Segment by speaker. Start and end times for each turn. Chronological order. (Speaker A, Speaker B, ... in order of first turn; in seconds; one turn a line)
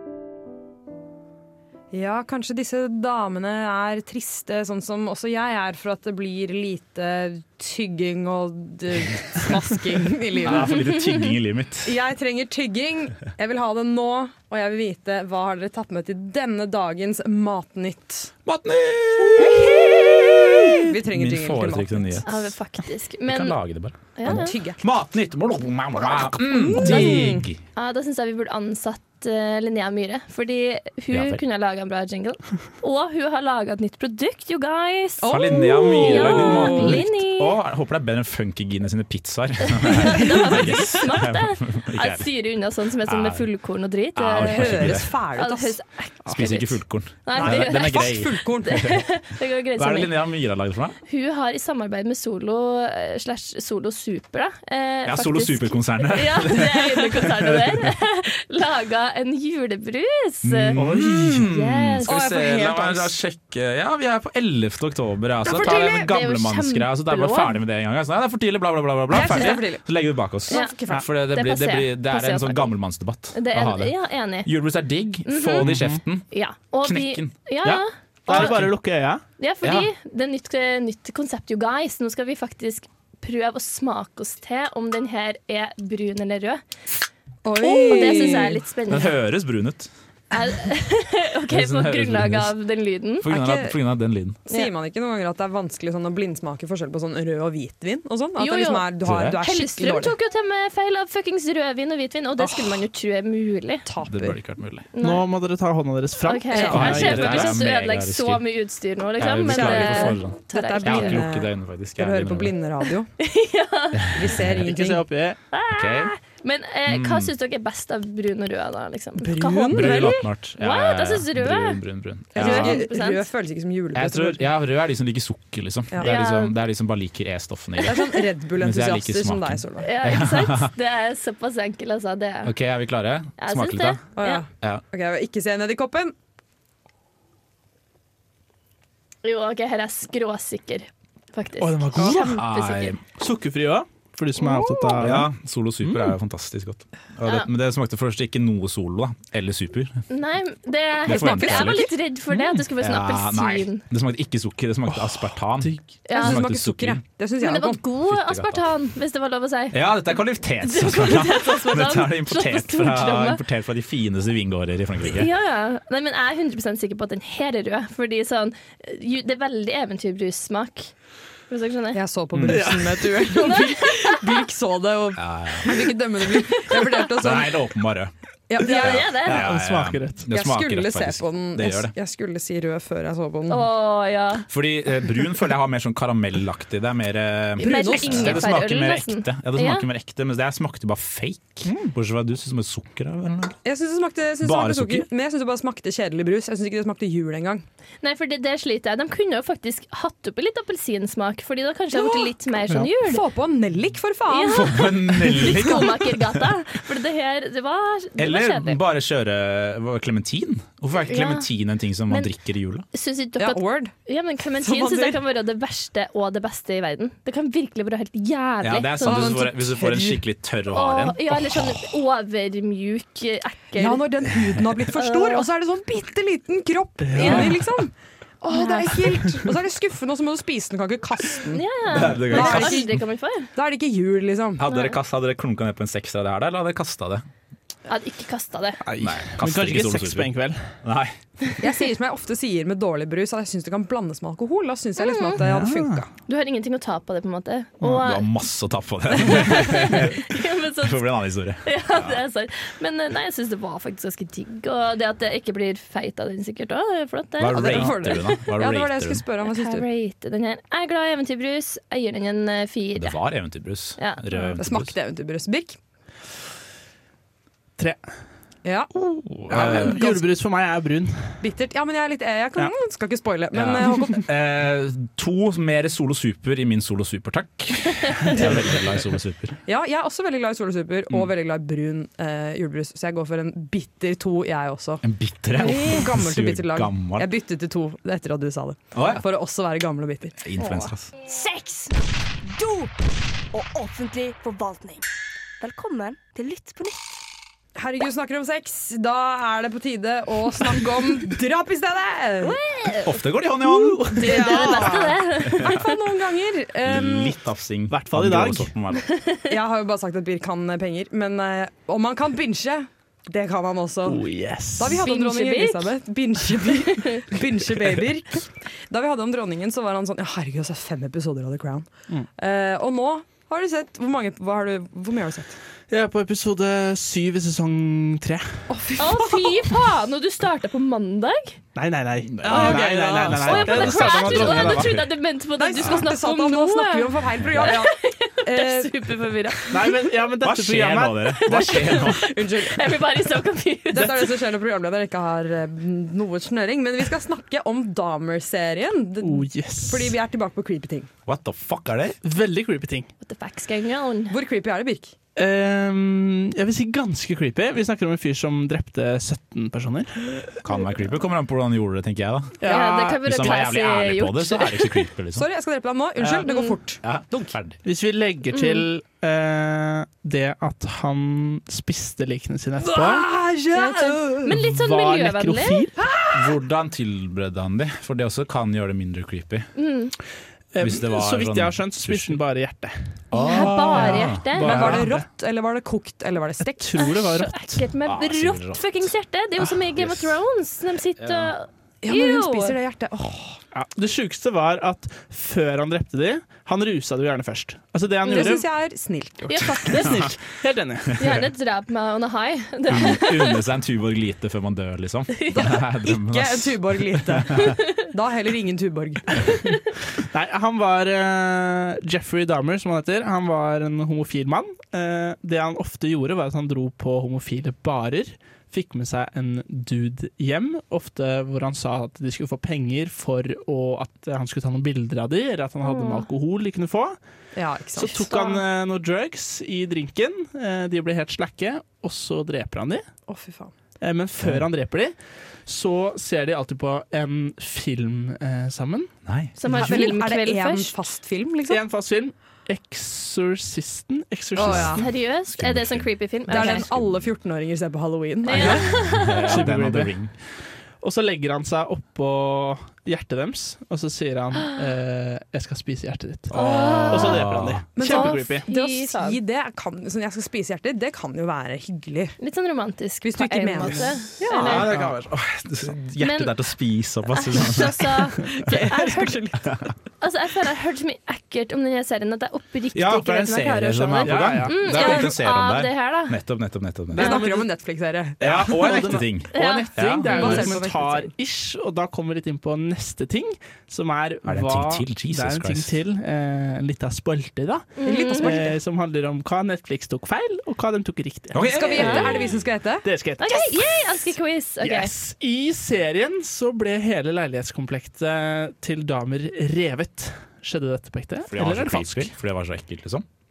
Speaker A: 1.9-10.8
Speaker B: 10.4-12.0
Speaker C: 10.7-11.3
Speaker A: 11.8-18.3
Speaker B: 18.5-22.5
Speaker A: 19.4-22.3
Speaker C: 19.6-19.9
Speaker C: 22.2-23.6
Speaker B: 23.3-27.6
Speaker C: 24.1-24.5
Speaker A: 24.3-24.8
Speaker A: 26.1-27.5
Speaker C: 26.8-27.1
Speaker C: 27.8-37.6
Speaker B: 31.1-31.4
Speaker A: 35.2-37.1
Speaker B: 35.3-42.3
Speaker C: 39.8-50.2
Speaker B: 43.0-43.5
Speaker B: 44.1-45.1
Speaker A: 44.4-45.8
Speaker B: 46.2-49.0
Speaker A: 47.4-49.0
Speaker B: 49.8-51.0
Speaker C: 51.1-60.8
Speaker B: 55.0-57.9
Speaker B: 60.4-76.3
Speaker D: 60.8-61.4
Speaker C: 61.4-62.2
Speaker A: 62.0-63.2
Speaker A: 65.5-66.1
Speaker C: 65.7-67.6
Speaker A: 69.1-71.1
Speaker C: 69.3-69.6
Speaker C: 70.5-70.8
Speaker C: 71.3-72.7
Speaker C: 73.3-74.5
Speaker C: 75.3-75.7
Speaker D: 75.6-76.0
Speaker C: 76.3-78.6
Speaker B: 76.8-77.3
Speaker D: 77.6-79.2
Speaker B: 78.3-78.8
Speaker C: 79.4-86.6
Speaker B: 79.6-79.9
Speaker A: 87.4-88.6
Speaker C: 87.6-89.2
Speaker B: 88.9-89.9
Speaker C: 90.3-93.3
Speaker B: 91.5-92.6
Speaker B: 93.2-94.4
Speaker A: 93.3-93.8
Speaker A: 94.5-100.2
Speaker C: 98.4-103.8
Speaker B: 99.0-99.4
Speaker A: 102.4-102.9
Speaker A: 103.8-104.4
Speaker B: 104.0-104.9
Speaker C: 104.9-105.3
Speaker D: 105.0-107.6
Speaker C: 106.2-111.2
Speaker A: 106.5-107.1
Speaker B: 106.5-108.4
Speaker B: 109.2-112.5
Speaker A: 109.5-113.1
Speaker C: 113.2-114.3
Speaker A: 114.1-115.0
Speaker D: 114.6-115.4
Speaker C: 115.5-121.8
Speaker B: 115.7-116.1
Speaker B: 116.9-117.3
Speaker A: 119.2-120.2
Speaker B: 119.7-122.8
Speaker C: 122.3-123.2
Speaker A: 122.3-124.4
Speaker B: 123.9-130.7
Speaker C: 126.0-126.6
Speaker A: 127.8-129.9
Speaker C: 129.8-132.5
Speaker B: 132.4-134.0
Speaker C: 133.4-134.4
Speaker A: 134.2-136.1
Speaker C: 139.2-143.0
Speaker D: 141.6-142.4
Speaker B: 142.3-143.0
Speaker D: 143.1-145.3
Speaker C: 144.4-144.9
Speaker B: 145.0-150.0
Speaker D: 145.8-146.2
Speaker C: 150.1-153.8
Speaker B: 151.1-151.9
Speaker A: 151.1-151.9
Speaker B: 152.7-157.0
Speaker D: 154.9-155.8
Speaker C: 156.1-156.4
Speaker A: 156.1-157.8
Speaker C: 157.4-159.9
Speaker B: 158.1-158.7
Speaker B: 159.7-165.3
Speaker C: 160.6-163.4
Speaker C: 165.1-170.9
Speaker C: 171.5-172.0
Speaker A: 171.9-177.6
Speaker D: 172.3-173.3
Speaker C: 173.3-174.3
Speaker B: 175.2-175.9
Speaker B: 177.1-181.9
Speaker A: 178.5-179.2
Speaker C: 178.6-179.4
Speaker D: 179.2-180.2
Speaker A: 180.3-183.7
Speaker C: 183.5-184.5
Speaker B: 184.5-193.6
Speaker A: 187.6-188.5
Speaker C: 187.6-189.9
Speaker D: 191.7-191.9
Speaker A: 193.7-197.7
Speaker B: 194.4-195.1
Speaker C: 198.0-203.2
Speaker A: 201.9-202.3
Speaker A: 203.0-205.8
Speaker C: 204.3-208.8
Speaker B: 204.5-206.5
Speaker B: 208.2-212.9
Speaker C: 211.1-211.5
Speaker C: 212.9-219.5
Speaker A: 213.4-213.9
Speaker A: 214.6-215.2
Speaker B: 218.6-221.9
Speaker A: 219.0-220.2
Speaker C: 220.7-224.1
Speaker A: 223.8-232.9
Speaker C: 224.9-225.5
Speaker D: 227.1-227.7
Speaker C: 227.2-227.5
Speaker C: 228.5-229.0
Speaker C: 231.5-233.5
Speaker B: 231.9-232.9
Speaker A: 233.5-234.6
Speaker B: 234.6-237.3
Speaker C: 234.7-235.0
Speaker C: 237.9-238.8
Speaker D: 238.8-240.8
Speaker B: 239.0-241.2
Speaker A: 241.6-246.1
Speaker C: 245.0-245.4
Speaker D: 245.4-246.0
Speaker C: 246.3-248.3
Speaker B: 247.8-252.2
Speaker C: 249.2-251.1
Speaker C: 251.6-258.3
Speaker B: 257.4-259.2
Speaker A: 257.5-259.9
Speaker C: 259.4-263.2
Speaker B: 263.0-264.9
Speaker C: 264.0-264.2
Speaker A: 264.3-265.8
Speaker A: 268.6-268.9
Speaker B: 268.9-270.0
Speaker A: 269.4-270.3
Speaker D: 269.5-271.4
Speaker A: 271.4-274.3
Speaker B: 273.5-279.6
Speaker A: 279.7-285.0
Speaker B: 285.0-287.3
Speaker A: 285.6-290.9
Speaker B: 288.9-289.2
Speaker B: 290.4-291.1
Speaker E: 291.2-295.1
Speaker E: 295.6-297.2
Speaker A: 297.8-302.6
Speaker E: 302.4-303.2
Speaker B: 303.0-304.5
Speaker D: 303.9-305.0
Speaker C: 304.1-305.9
Speaker A: 304.1-307.4
Speaker B: 305.4-305.8
Speaker B: 306.9-309.1
Speaker D: 307.9-308.7
Speaker C: 309.1-309.5
Speaker A: 309.5-325.6
Speaker D: 314.1-315.0
Speaker C: 315.0-315.9
Speaker D: 325.9-328.6
Speaker A: 328.7-329.7
Speaker C: 329.0-331.6
Speaker D: 331.8-335.0
Speaker B: 332.2-335.1
Speaker A: 332.4-333.9
Speaker C: 333.5-340.0
Speaker A: 335.6-339.3
Speaker B: 337.4-337.7
Speaker D: 339.7-341.5
Speaker B: 340.4-342.3
Speaker C: 341.3-344.3
Speaker A: 342.1-343.1
Speaker A: 343.9-351.1
Speaker D: 349.2-350.2
Speaker B: 351.3-352.2
Speaker D: 352.2-353.1
Speaker C: 353.2-354.4
Speaker A: 354.3-355.1
Speaker D: 355.4-360.6
Speaker B: 360.6-365.5
Speaker D: 362.6-363.0
Speaker C: 362.7-365.1
Speaker A: 365.4-367.6
Speaker B: 366.2-366.5
Speaker C: 366.5-366.8
Speaker B: 367.0-367.8
Speaker D: 367.8-373.4
Speaker C: 368.5-368.8
Speaker A: 372.8-374.6
Speaker C: 373.8-375.9
Speaker D: 374.5-376.1
Speaker A: 376.0-376.6
Speaker B: 376.3-379.7
Speaker C: 379.8-380.1
Speaker D: 380.7-383.2
Speaker B: 380.8-382.4
Speaker B: 383.3-385.0
Speaker C: 383.4-385.0
Speaker A: 383.4-383.7
Speaker D: 383.9-385.2
Speaker A: 384.6-387.1
Speaker D: 386.6-387.9
Speaker C: 387.0-392.8
Speaker B: 388.1-390.4
Speaker B: 391.2-391.6
Speaker A: 392.0-393.6
Speaker D: 393.7-398.7
Speaker C: 398.2-398.5
Speaker A: 398.3-400.1
Speaker C: 399.5-400.4
Speaker D: 400.0-401.2
Speaker B: 400.1-400.3
Speaker C: 401.2-403.6
Speaker B: 402.9-407.4
Speaker C: 405.4-405.7
Speaker A: 405.5-409.6
Speaker D: 410.2-427.2
Speaker C: 425.9-426.3
Speaker A: 427.6-428.6
Speaker D: 427.9-433.1
Speaker A: 433.3-433.7
Speaker D: 434.0-435.1
Speaker B: 434.4-434.7
Speaker D: 435.7-439.1
Speaker B: 439.3-439.6
Speaker C: 439.6-441.0
Speaker A: 439.6-441.8
Speaker D: 439.8-440.1
Speaker D: 441.7-445.1
Speaker A: 444.6-445.0
Speaker B: 444.6-447.4
Speaker C: 444.9-446.9
Speaker A: 446.5-449.0
Speaker C: 448.4-449.7
Speaker B: 448.6-450.4
Speaker D: 449.5-450.1
Speaker D: 451.0-458.7
Speaker C: 456.5-457.5
Speaker B: 456.5-457.9
Speaker A: 458.0-462.4
Speaker C: 458.0-459.4
Speaker C: 462.4-464.9
Speaker A: 463.2-464.9
Speaker B: 464.4-468.4
Speaker D: 464.9-465.1
Speaker C: 466.2-466.5
Speaker C: 467.3-469.5
Speaker A: 468.5-469.7
Speaker C: 470.2-476.4
Speaker B: 472.9-477.5
Speaker D: 474.2-475.3
Speaker D: 477.1-477.7
Speaker A: 477.2-479.2
Speaker B: 478.4-480.8
Speaker D: 478.4-494.1
Speaker C: 479.5-480.6
Speaker A: 480.2-481.3
Speaker B: 484.4-485.9
Speaker C: 488.0-488.6
Speaker A: 488.1-488.8
Speaker B: 491.5-492.6
Speaker A: 491.6-493.6
Speaker C: 492.0-492.3
Speaker C: 493.4-495.1
Speaker D: 494.8-502.3
Speaker B: 501.5-503.3